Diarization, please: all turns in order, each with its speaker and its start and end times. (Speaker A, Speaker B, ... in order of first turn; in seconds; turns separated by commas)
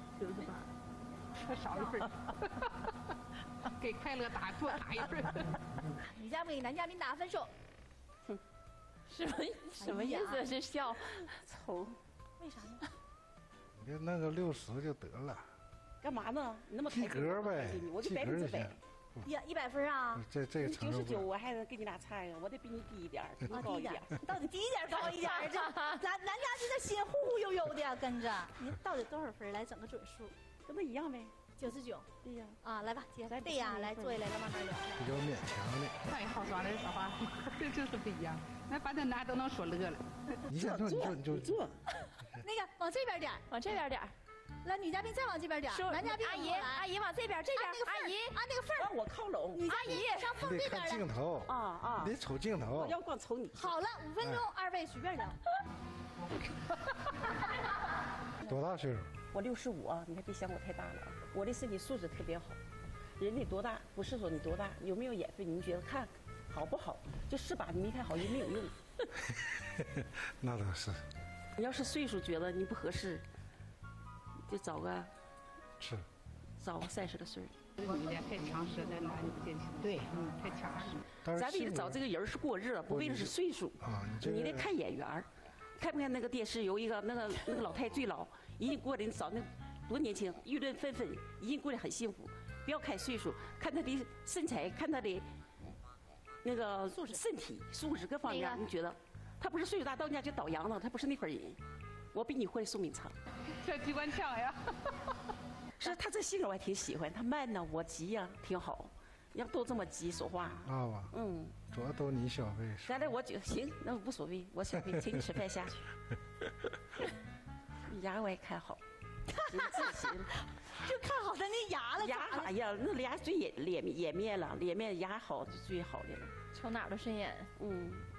Speaker A: 1.4-2.9, Speaker A: 3.8-5.5, Speaker B: 5.9-7.5, Speaker C: 9.1-11.2, Speaker B: 9.8-10.5, Speaker D: 11.1-12.0, Speaker B: 12.4-12.9, Speaker E: 13.8-15.4, Speaker D: 16.0-18.8, Speaker E: 16.9-19.3, Speaker B: 19.2-20.2, Speaker E: 20.1-21.3, Speaker D: 20.6-24.1, Speaker B: 23.5-30.3, Speaker C: 25.1-26.0, Speaker D: 30.6-31.5, Speaker B: 31.6-32.1, Speaker D: 32.2-32.6, Speaker B: 32.6-35.0, Speaker D: 33.3-34.2, Speaker E: 35.0-36.0, Speaker A: 36.1-40.4, Speaker E: 40.5-41.5, Speaker D: 40.5-41.8, Speaker B: 42.4-43.5, Speaker C: 43.5-44.1, Speaker B: 44.6-46.9, Speaker C: 45.7-48.4, Speaker B: 47.5-48.9, Speaker D: 48.8-50.0, Speaker B: 49.5-51.0, Speaker C: 49.7-50.3, Speaker E: 50.4-53.0, Speaker D: 51.5-52.1, Speaker D: 52.7-53.8, Speaker B: 53.5-55.4, Speaker E: 58.4-59.1, Speaker D: 59.3-62.6, Speaker D: 63.2-68.8, Speaker E: 69.3-71.0, Speaker D: 71.6-73.2, Speaker D: 74.5-75.1, Speaker E: 75.8-76.0, Speaker D: 76.6-77.5, Speaker A: 77.8-81.0, Speaker E: 81.2-82.0, Speaker D: 81.3-85.3, Speaker E: 82.9-84.7, Speaker D: 85.8-95.2, Speaker D: 96.4-101.6, Speaker B: 98.3-98.6, Speaker D: 102.1-103.1, Speaker A: 103.6-105.1, Speaker D: 105.8-111.6, Speaker E: 110.6-111.1, Speaker E: 111.7-113.1, Speaker D: 112.8-115.9, Speaker D: 117.9-118.8, Speaker B: 119.3-122.5, Speaker D: 119.5-120.3, Speaker D: 122.0-126.4, Speaker C: 126.5-127.5, Speaker D: 127.6-128.1